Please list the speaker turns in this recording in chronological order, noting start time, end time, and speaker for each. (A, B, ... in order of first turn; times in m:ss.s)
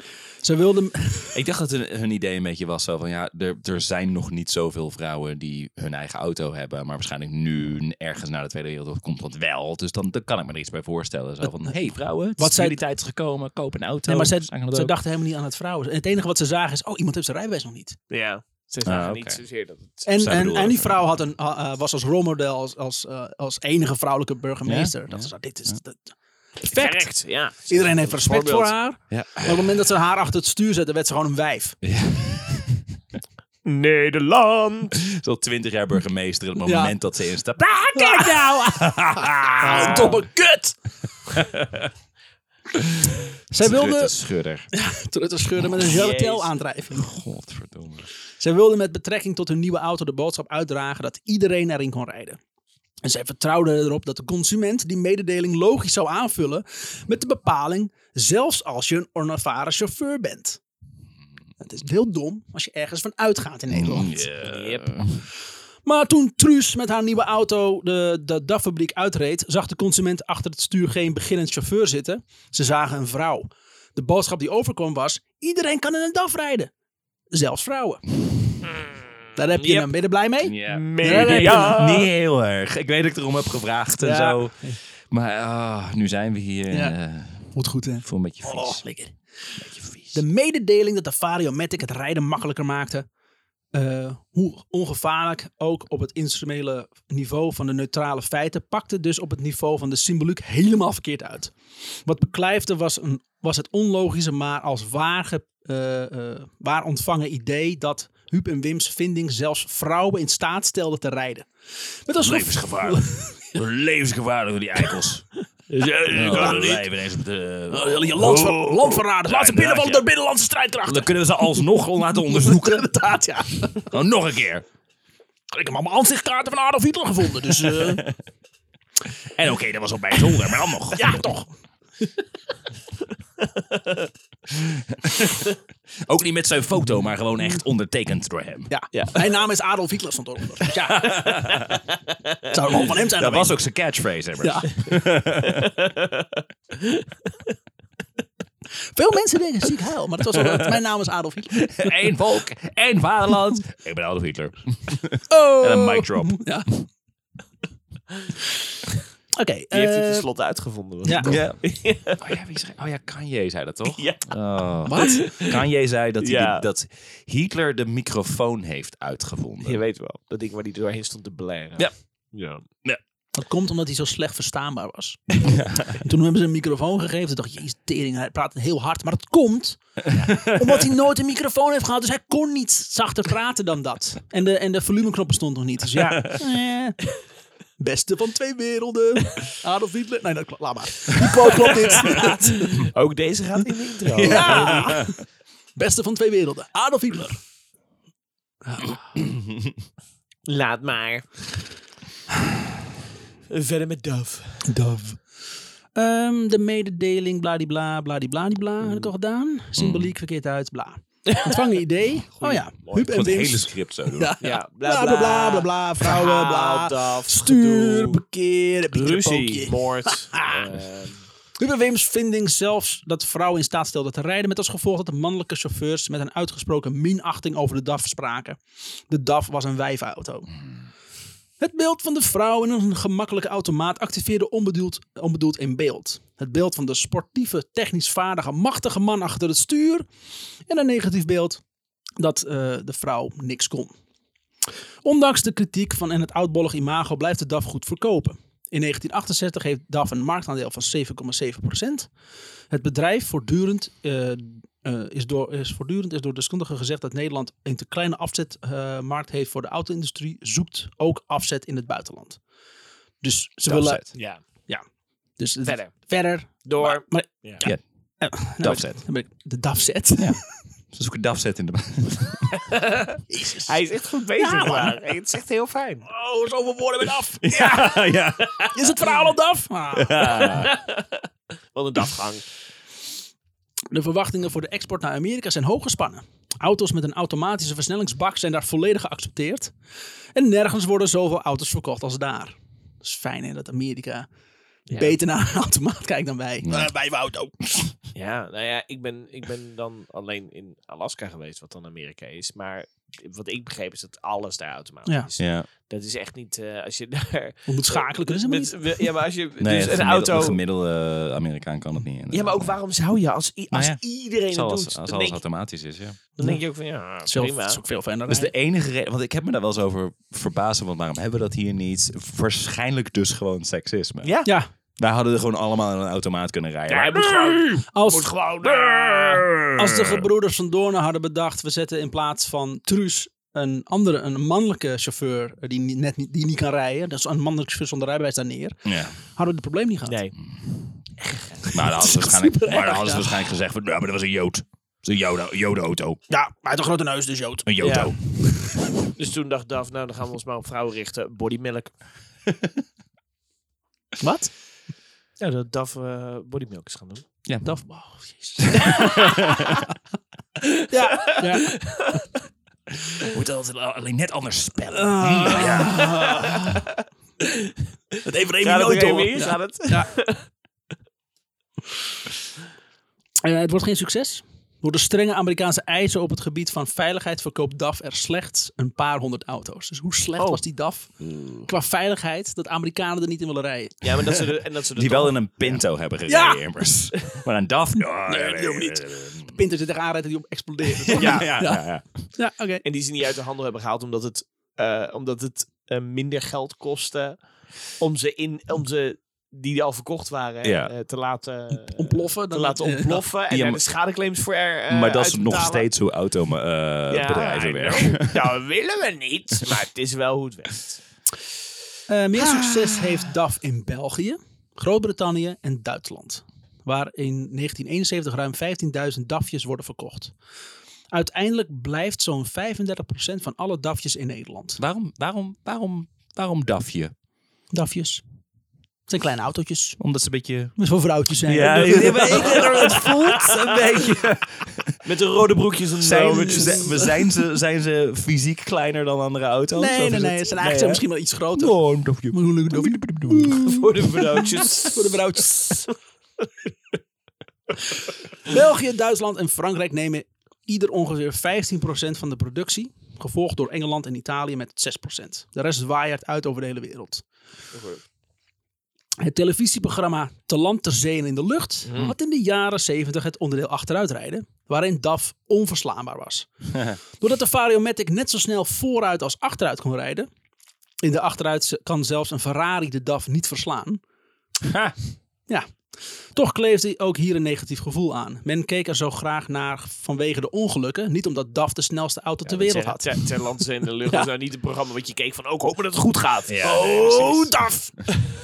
0:00.4-0:01.4 A
0:01.3-0:14.9 B
0:11.6-0:12.8 A
0:14.1-0:18.0 A
0:18.1-0:20.0 C
0:18.8-0:19.4 B
0:20.0-0:31.8 A
0:20.1-0:20.9 B
0:24.6-0:25.7 B
0:26.7-0:28.7 C
0:29.1-0:29.7 B
0:31.8-0:32.8 B
0:33.6-0:35.0 C
0:34.9-0:40.2 B
0:36.6-0:36.9 A
0:37.9-0:38.8 A
0:39.6-0:40.8 A
0:39.7-0:40.1 C
0:41.3-0:41.9 B
0:43.5-0:44.1 A
0:43.6-0:44.7 B
0:44.7-0:47.1 A
0:45.8-0:46.5 C
0:46.9-0:48.1 B
0:48.4-0:52.4 A
0:53.0-1:00.6 A
1:01.6-1:04.3 A
1:03.7-1:05.2 B
1:04.4-1:04.9 C
1:05.8-1:16.7 A
1:17.3-1:18.0 A
1:19.4-1:21.8 A
1:19.6-1:19.9 C
1:20.4-1:27.5 B
1:20.6-1:22.1 C
1:24.0-1:24.8 A
1:26.7-1:26.9 A
1:27.5-1:29.1 A
1:28.0-1:28.8 B
1:29.6-1:30.2 B
1:30.1-1:33.0 A
1:33.7-1:41.5 A
1:42.0-1:51.5 A
1:52.0-1:53.6 A
1:52.2-1:55.3 B
1:55.7-1:56.8 C
1:55.8-1:56.8 A
1:56.1-2:00.0 B
1:57.7-2:01.1 A
2:00.8-2:02.9 B
2:02.2-2:03.8 A
2:03.7-2:04.6 B
2:05.5-2:08.0 A
2:07.5-2:08.2 B
2:09.3-2:11.2 B
2:10.9-2:11.5 A
2:13.7-2:14.0 C
2:14.5-2:15.4 B
2:16.0-2:18.7 B
2:18.7-2:21.3 A
2:18.9-2:19.3 C
2:20.8-2:21.8 B
2:22.5-2:23.5 A
2:22.7-2:25.8 B
2:24.4-2:24.7 A
2:25.4-2:27.3 C
2:28.9-2:31.9 A
2:30.4-2:30.6 B
2:31.5-2:36.5 B
2:35.3-2:36.7 A
2:39.4-2:40.3 A
2:39.7-2:42.2 C
2:41.0-2:41.3 A
2:41.2-2:49.8 B
2:43.9-2:44.3 C
2:44.8-2:45.2 A
2:45.0-2:45.6 C
2:46.2-2:46.6 C
2:49.6-2:52.6 C
2:53.3-3:07.0 A
2:55.4-2:56.0 B
3:00.1-3:00.8 B
3:06.0-3:06.3 B
3:07.8-3:12.9 A
3:12.0-3:15.0 C
3:14.2-3:15.2 B
3:14.2-3:15.2 A
3:15.8-3:17.4 A
3:18.6-3:19.1 A
3:19.2-3:19.7 B
3:20.5-3:21.3 C
3:23.5-3:24.6 C
3:24.6-3:25.2 A
3:25.9-3:40.6 A
3:29.8-3:30.1 B
3:31.3-3:31.6 C
3:32.4-3:33.1 C
3:33.0-3:34.3 B
3:34.4-3:38.2 C
3:38.9-3:41.2 C
3:41.6-3:50.5 A
3:51.6-4:00.0 A
4:00.7-4:01.6 A
4:02.2-4:03.9 A
4:05.0-4:12.1 A
4:12.7-4:22.4 A
4:23.2-4:24.8 A
4:23.7-4:24.1 B
4:24.1-4:24.4 C
4:25.4-4:30.5 A
4:25.6-4:27.6 C
4:28.4-4:29.0 B
4:30.2-4:32.6 B
4:32.7-4:36.1 C
4:33.3-4:33.8 A
4:34.4-4:35.0 A
4:36.1-4:38.0 A
4:37.4-4:39.1 B
4:38.7-4:40.5 A
4:39.9-4:40.7 B
4:40.3-4:42.4 C
4:43.9-4:49.7 A
4:50.3-4:54.3 A
4:54.9-4:55.2 C
4:54.9-4:57.8 A
4:56.6-4:56.9 B
4:58.1-5:10.6 C
5:05.4-5:05.7 B
5:07.7-5:09.1 A
5:09.6-5:12.8 B
5:12.3-5:15.4 C
5:13.7-5:16.2 B
5:16.4-5:17.8 C
5:17.2-5:18.5 A
5:18.3-5:24.3 B
5:24.2-5:24.5 C
5:24.4-5:24.7 A
5:25.0-5:27.7 B
5:26.9-5:29.5 C
5:27.9-5:28.3 A
5:28.6-5:30.2 B
5:29.7-5:40.2 A
5:38.8-5:39.1 B
5:40.0-5:40.4 C
5:41.2-5:41.7 C
5:41.6-5:43.4 A
5:41.7-5:46.2 B
5:46.3-5:48.7 A
5:47.6-5:48.5 B
5:47.8-5:48.1 C
5:49.1-5:51.9 C
5:54.2-5:54.5 A
5:55.4-5:57.2 C
5:57.6-5:59.6 A
5:58.6-5:59.8 B
5:58.8-5:59.5 C
6:00.6-6:02.3 C
6:00.9-6:01.7 A
6:03.2-6:06.2 B
6:04.9-6:06.8 A
6:06.0-6:06.6 C
6:07.5-6:07.7 C
6:08.2-6:10.1 A
6:08.6-6:10.4 C
6:13.4-6:21.1 A
6:21.2-6:21.7 C
6:21.6-6:24.0 A
6:24.0-6:25.8 C
6:24.9-6:29.6 B
6:26.3-6:26.6 A
6:28.2-6:32.8 A
6:31.0-6:32.3 B
6:31.2-6:31.5 C
6:32.8-6:45.9 C
6:40.6-6:40.9 B
6:41.9-6:43.2 A
6:43.5-6:43.8 B
6:44.9-6:48.6 B
6:47.1-6:51.0 C
6:52.1-7:00.3 A
6:52.4-6:53.3 B
7:01.1-7:04.8 A
7:04.8-7:07.1 B
7:07.7-7:08.2 A
7:09.1-7:10.0 A
7:10.0-7:10.7 B
7:10.8-7:13.1 A
7:11.4-7:15.0 B
7:12.1-7:13.6 C
7:15.0-7:17.1 C
7:16.0-7:20.9 B
7:16.3-7:17.0 A
7:19.7-7:21.8 A
7:20.6-7:21.0 C
7:21.5-7:24.0 B
7:22.3-7:25.9 A
7:23.7-7:25.1 C
7:28.4-7:37.2 A
7:37.7-7:38.0 C
7:39.2-7:46.5 A
7:47.2-7:50.3 A
7:51.0-7:54.0 A
7:54.6-7:54.9 B
7:56.3-8:03.3 A
8:02.4-8:07.4 C
8:06.5-8:07.5 B
8:06.6-8:08.0 A